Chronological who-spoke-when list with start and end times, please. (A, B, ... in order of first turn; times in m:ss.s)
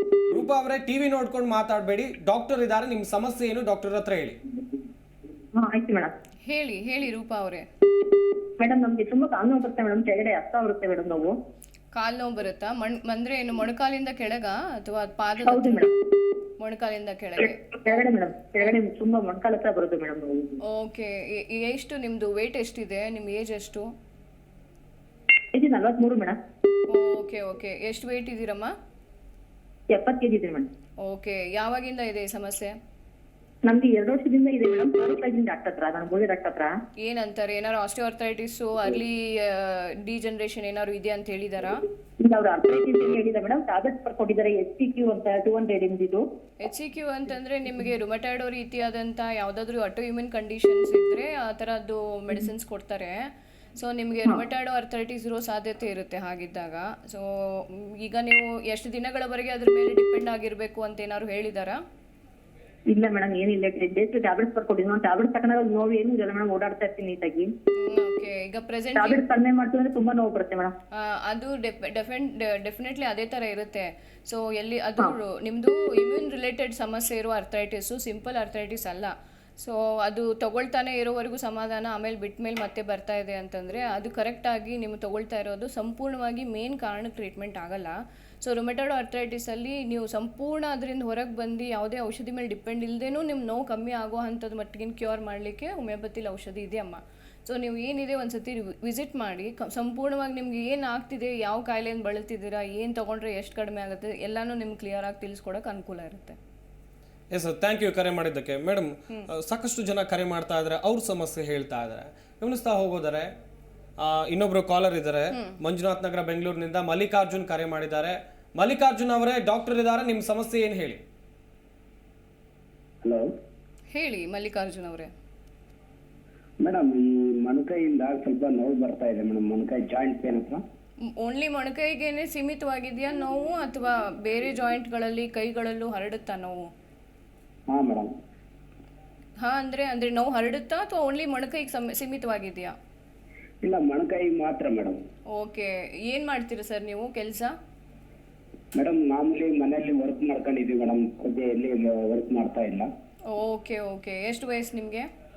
0:00.3-0:04.4 A
0:05.5-0:06.1 B
0:06.5-0:07.6 C
0:08.6-0:11.3 B
0:12.0-0:15.9 C
0:15.5-0:15.9 B
0:16.6-0:18.0 C
0:17.8-0:20.6 B
0:20.7-0:23.9 C
0:25.5-0:26.4 B
0:26.9-0:28.7 C
0:29.9-0:30.7 B
0:31.0-0:32.8 C
0:33.6-0:36.8 B
0:37.0-0:41.8 C
0:42.2-0:46.2 B
0:46.6-0:53.2 C
0:53.8-1:01.8 C
1:02.9-1:07.5 B
1:07.8-1:09.2 C
1:09.0-1:10.7 B
1:11.0-1:46.4 C
1:47.3-1:53.3 A
1:54.0-2:01.0 A
2:03.9-2:05.1 C
2:06.6-2:10.6 D
2:11.1-2:16.7 C
2:17.7-2:18.1 D
2:19.4-2:22.8 C
2:23.6-2:25.0 D
2:25.3-2:27.6 C
2:28.8-2:32.9 D
2:33.3-2:35.1 C